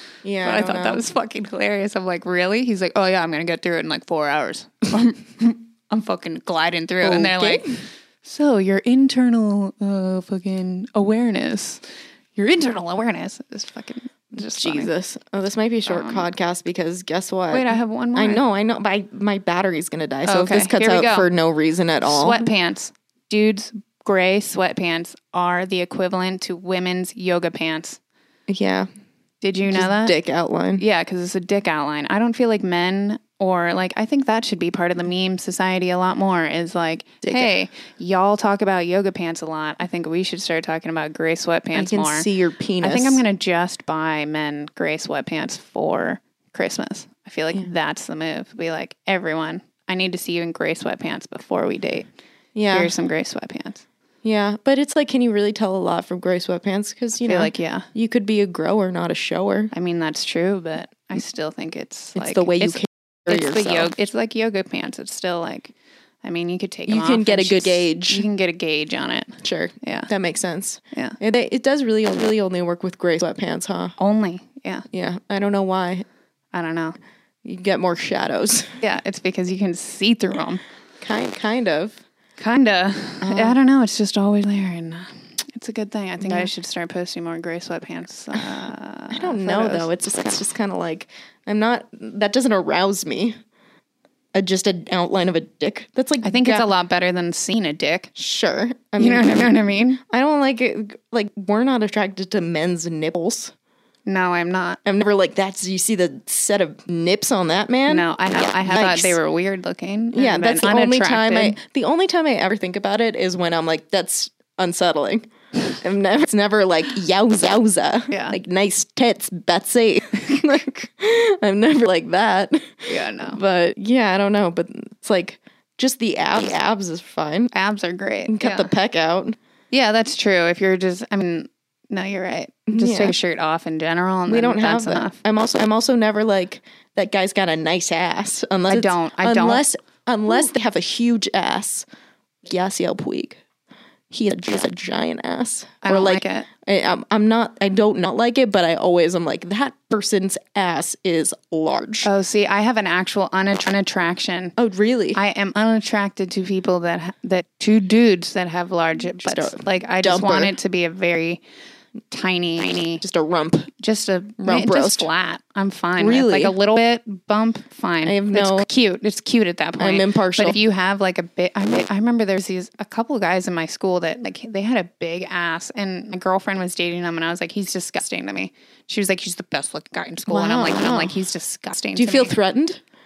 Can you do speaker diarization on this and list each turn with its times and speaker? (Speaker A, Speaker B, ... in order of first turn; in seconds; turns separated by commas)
Speaker A: 0.2-1.0, Speaker B: 0.4-11.8, Speaker A: 7.0-7.8, Speaker B: 12.3-14.9, Speaker A: 14.5-22.5, Speaker B: 15.9-16.3, Speaker B: 17.5-18.4, Speaker B: 20.2-21.3, Speaker B: 22.0-28.0, Speaker A: 28.5-28.9, Speaker B: 29.4-30.1, Speaker A: 29.6-30.8, Speaker B: 30.8-42.3, Speaker A: 37.2-37.5, Speaker A: 41.7-43.2, Speaker B: 42.8-52.1, Speaker A: 52.5-52.9, Speaker B: 52.7-53.8, Speaker A: 54.2-59.7, Speaker B: 57.2-57.9, Speaker B: 59.7-70.1, Speaker A: 62.1-63.9, Speaker A: 66.9-68.2, Speaker A: 69.4-73.9, Speaker B: 74.0-74.8, Speaker A: 74.9-76.0, Speaker B: 76.5-77.0, Speaker A: 77.4-78.8, Speaker B: 78.8-80.6, Speaker A: 81.0-82.0, Speaker B: 82.4-89.8, Speaker A: 83.2-83.6, Speaker A: 89.1-93.3, Speaker A: 94.3-96.7, Speaker B: 96.2-98.1, Speaker A: 98.1-103.5, Speaker B: 99.0-100.0, Speaker B: 104.0-104.8, Speaker A: 104.8-109.2, Speaker B: 107.9-111.6, Speaker A: 110.1-127.5, Speaker B: 118.1-118.4, Speaker B: 122.9-123.4, Speaker B: 127.5-128.7, Speaker A: 128.3-129.3, Speaker B: 129.7-135.2, Speaker A: 132.7-133.1, Speaker A: 134.3-141.8, Speaker B: 138.7-139.6, Speaker A: 142.4-143.4, Speaker A: 144.1-152.1, Speaker B: 145.8-146.5, Speaker B: 152.0-154.6, Speaker A: 154.6-155.2, Speaker B: 155.1-161.4, Speaker A: 159.2-160.5, Speaker B: 162.1-163.0, Speaker A: 163.0-163.7, Speaker B: 163.8-182.3, Speaker A: 164.4-165.1, Speaker A: 166.0-166.5, Speaker A: 168.0-168.7, Speaker A: 169.8-170.6, Speaker A: 180.2-181.2, Speaker A: 181.9-182.8